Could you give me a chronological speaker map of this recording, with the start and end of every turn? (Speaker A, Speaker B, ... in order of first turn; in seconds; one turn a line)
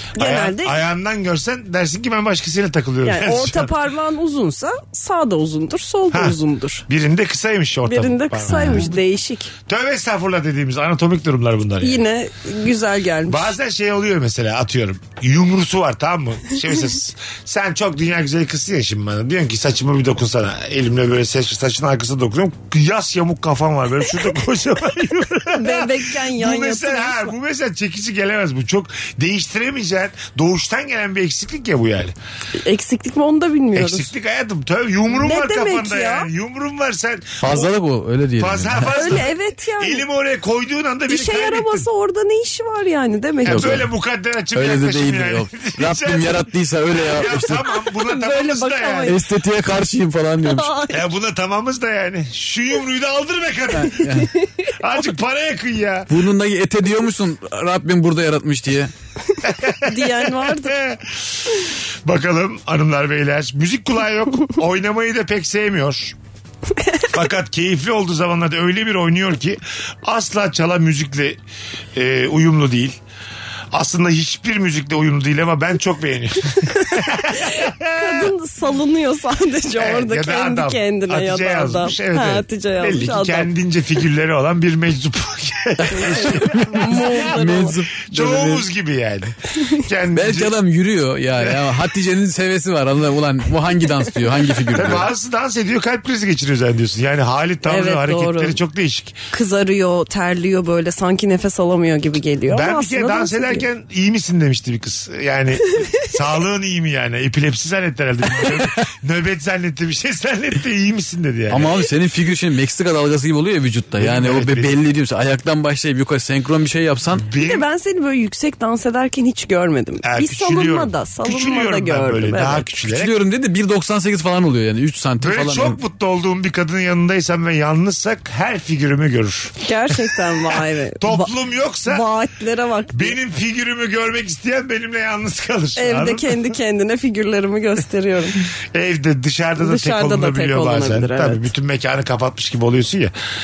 Speaker A: 0.2-0.8
Speaker B: 0.2-3.7
Speaker A: 3.0-6.8
Speaker B: 6.1-8.9
Speaker A: 7.8-9.5
Speaker B: 9.7-12.0
Speaker A: 11.8-13.5
Speaker B: 13.3-32.1
Speaker A: 25.5-27.3
Speaker A: 32.6-34.1
Speaker B: 33.7-37.7
Speaker A: 35.1-36.3
Speaker C: 37.4-38.9
Speaker B: 38.4-41.8
Speaker A: 38.9-40.0
Speaker A: 41.1-43.8
Speaker C: 43.4-43.9
Speaker B: 43.5-46.5
Speaker C: 44.5-47.6
Speaker B: 47.1-49.2
Speaker A: 48.0-49.2
Speaker C: 49.1-50.7
Speaker A: 50.5-51.0
Speaker B: 50.9-56.1
Speaker C: 53.9-54.3
Speaker C: 56.1-58.9
Speaker B: 59.5-61.2
Speaker A: 59.8-60.7
Speaker B: 62.0-66.2
Speaker B: 67.1-71.4
Speaker B: 71.9-73.0
Speaker B: 73.7-78.3
Speaker A: 76.8-83.5
Speaker B: 79.7-87.3
Speaker C: 85.8-88.7
Speaker A: 85.9-87.8
Speaker B: 88.1-90.5
Speaker C: 90.1-95.1
Speaker B: 91.4-91.6
Speaker B: 94.7-99.2
Speaker A: 97.6-98.6
Speaker A: 99.3-103.6
Speaker B: 102.5-111.7
Speaker C: 111.5-117.2
Speaker B: 114.0-114.8
Speaker B: 117.2-117.6
Speaker A: 117.4-122.7
Speaker B: 120.0-123.1
Speaker C: 122.9-125.8
Speaker B: 125.2-132.0
Speaker A: 129.6-131.3
Speaker A: 131.8-133.2
Speaker B: 132.9-136.4
Speaker A: 135.8-138.5
Speaker B: 138.7-143.1
Speaker A: 139.6-141.4